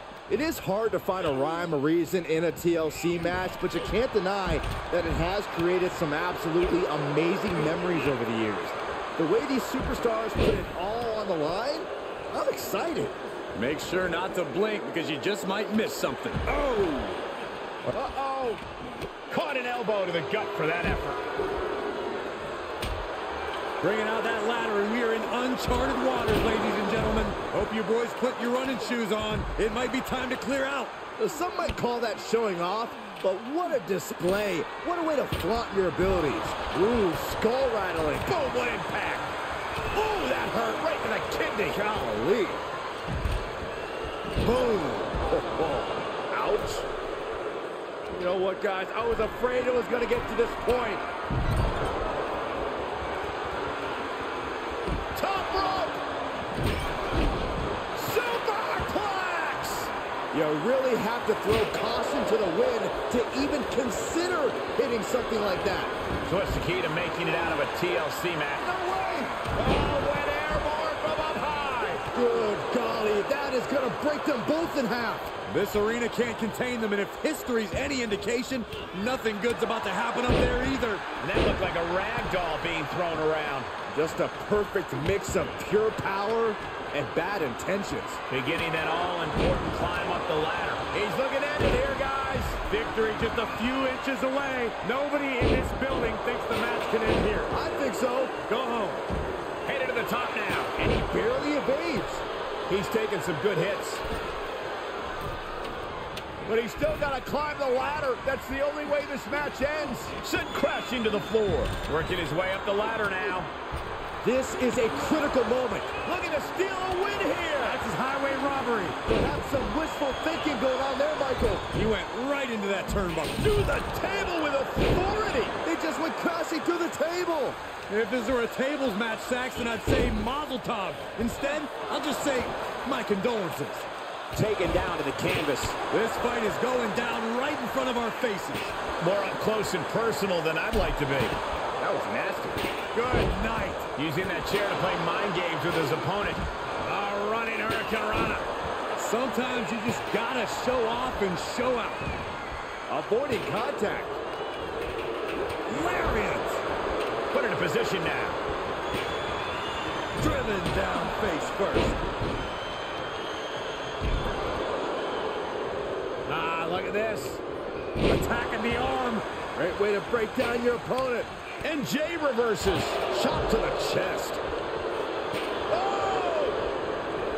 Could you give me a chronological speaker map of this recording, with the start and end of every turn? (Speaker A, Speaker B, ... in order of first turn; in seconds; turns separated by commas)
Speaker A: 0.3-13.2, Speaker B: 13.5-17.3, Speaker C: 17.9-18.6, Speaker A: 18.2-18.6, Speaker C: 19.3-21.2, Speaker B: 23.8-30.9, Speaker A: 31.2-38.4, Speaker C: 38.3-39.3, Speaker C: 40.0-41.8, Speaker A: 41.2-42.6, Speaker A: 44.4-45.9, Speaker C: 46.3-46.8, Speaker A: 48.1-51.0, Speaker A: 55.1-56.0, Speaker A: 57.9-66.0, Speaker C: 66.2-68.7, Speaker A: 68.6-69.4, Speaker C: 69.4-72.1, Speaker A: 72.1-75.3, Speaker B: 75.5-81.0, Speaker C: 81.2-83.7, Speaker A: 83.9-88.2, Speaker C: 88.3-92.6, Speaker B: 92.7-97.5, Speaker A: 97.5-98.4, Speaker B: 98.5-99.0, Speaker C: 99.6-101.0, Speaker A: 100.9-102.2, Speaker C: 102.7-104.0, Speaker C: 106.4-109.1, Speaker A: 109.1-110.1, Speaker C: 110.2-113.5, Speaker A: 114.2-116.0, Speaker C: 116.0-117.8, Speaker B: 117.6-119.0, Speaker A: 119.1-121.7, Speaker B: 121.7-123.4, Speaker C: 123.4-125.6, Speaker A: 125.6-127.6, Speaker B: 127.9-133.9, Speaker C: 134.3-135.8, Speaker B: 135.9-138.8, Speaker C: 139.0-142.6, Speaker B: 142.9-143.9, Speaker C: 144.0-148.5, Speaker B: 148.9-152.0, Speaker A: 152.9-154.2, Speaker B: 155.7-156.6, Speaker C: 157.3-158.4, Speaker B: 160.2-162.0, Speaker C: 166.2-167.4, Speaker B: 168.0-169.3, Speaker A: 169.5-171.3, Speaker C: 171.6-174.4, Speaker C: 175.7-176.6